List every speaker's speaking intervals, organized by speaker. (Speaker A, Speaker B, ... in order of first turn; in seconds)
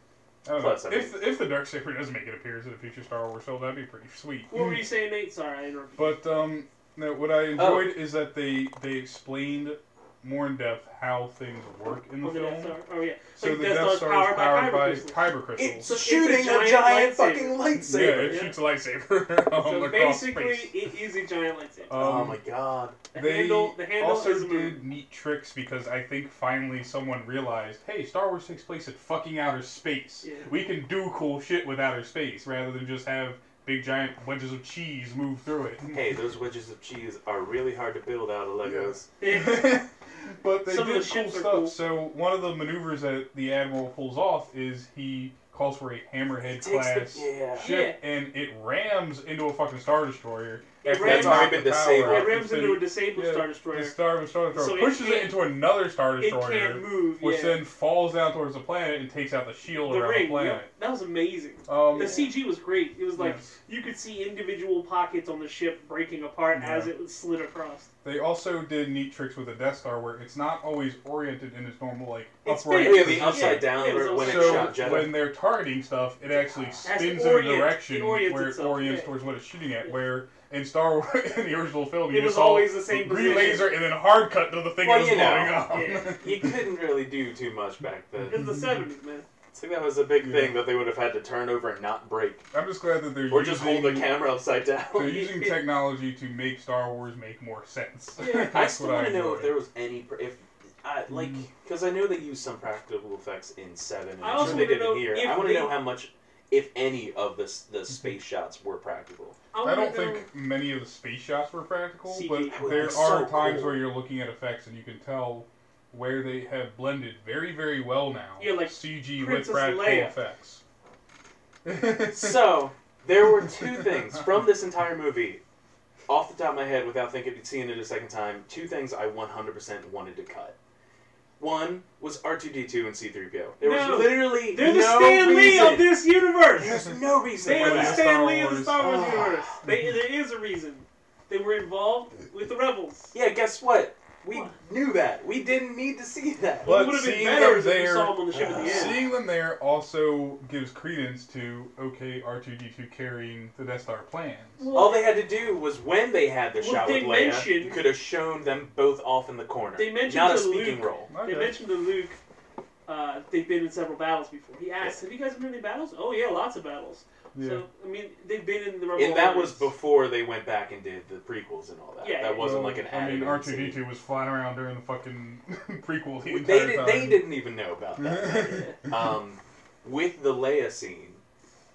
Speaker A: 0.4-4.9, 6.0-12.8, 13.3-15.9, 17.7-20.8, 21.9-22.4, 23.1-36.0, 38.6-60.7, 61.7-62.2, 63.1-63.5, 66.5-66.9, 68.0-86.6, 88.2-88.8, 90.2-90.6, 92.5-94.2, 94.9-99.5, 101.1-101.4, 104.3-104.8, 109.6-120.6, 121.6-122.5, 137.4-139.9, 146.6-154.7, 161.1-161.6, 167.3-167.6, 172.3-177.3, 178.0-178.6
Speaker B: 0.6-1.2, 7.5-8.0, 15.6-18.5, 21.9-23.0, 35.9-39.1, 46.4-47.7, 50.9-52.4, 62.0-62.3, 72.8-75.2, 76.4-76.9, 83.2-83.5, 84.8-88.5, 89.5-92.5, 93.3-95.3, 98.2-109.4, 112.5-113.8, 122.0-125.4, 126.1-130.5, 131.4-136.0, 136.6-138.1, 138.8-139.6, 143.1-147.0, 148.3-149.1, 154.7-161.1, 168.9-173.8, 176.3-181.2
Speaker C: 4.5-6.2, 12.2-15.2, 15.8-18.6, 19.6-22.1, 23.1-24.8, 30.2-30.5, 39.2-39.8, 40.7-41.7, 47.6-48.0, 50.8-54.0, 54.5-55.4, 56.2-57.6, 59.8-67.9, 72.4-75.0, 76.8-79.1, 82.1-83.7, 85.7-86.2, 88.3-89.2, 95.0-95.5, 98.2-98.6, 104.2-105.7, 109.5-110.3, 112.1-113.2, 118.4-120.2, 133.6-136.8, 137.4-143.1, 146.6-149.0, 154.6-155.1, 156.6-157.8, 159.7-162.2, 162.9-169.7, 172.0-172.6, 178.2-178.8